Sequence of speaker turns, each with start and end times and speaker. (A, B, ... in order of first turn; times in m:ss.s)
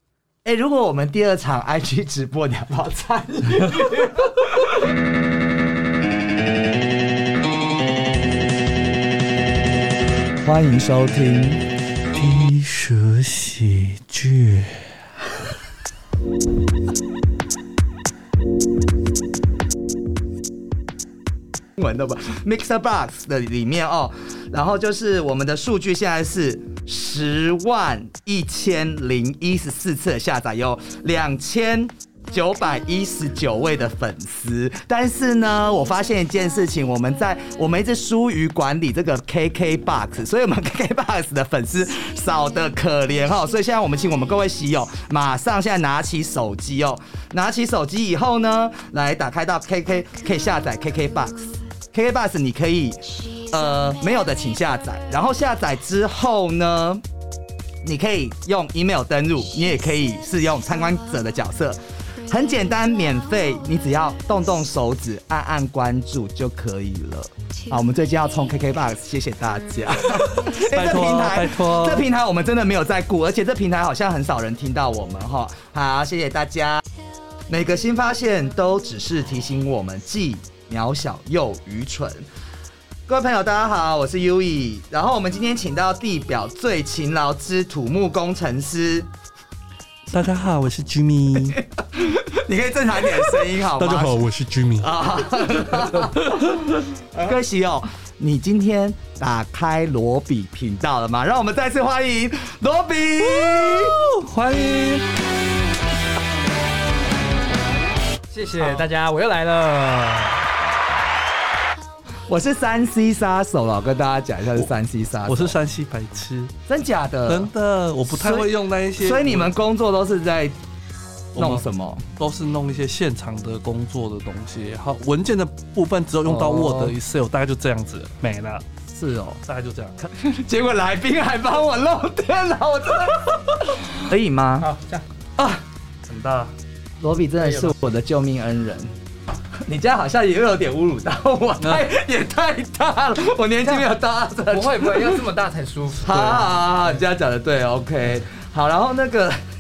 0:00.4-0:04.8 A
0:10.4-0:11.7 A
0:12.1-0:14.9 B
0:21.8-0:57.0 A
0:57.8-1:16.8 A
1:10.5-1:12.1 B
1:17.5-1:22.3 A
1:23.1-1:29.1 A
1:30.1-1:31.6 B
1:31.4-1:34.2 A
1:33.6-1:35.0 B
1:34.8-1:44.0 A
1:35.9-1:36.8 B
1:43.8-1:45.1 B
1:48.3-1:50.4 C
1:52.3-1:55.6 A
1:55.3-1:56.5 B
1:56.7-1:57.5 A
1:57.3-1:59.5 B
1:58.1-2:00.6 A
2:01.4-2:02.0 A
2:01.4-2:01.6 B
2:02.2-2:08.6 B
2:06.2-2:07.0 A
2:08.9-2:09.4 A
2:09.4-2:10.1 B
2:10.2-2:14.7 A
2:14.6-2:15.0 C
2:15.4-2:15.6 A
2:16.0-2:16.5 B
2:17.0-2:18.9 A
2:17.4-2:17.8 C
2:19.6-2:25.2 A
2:24.5-2:27.0 C
2:26.0-2:29.4 A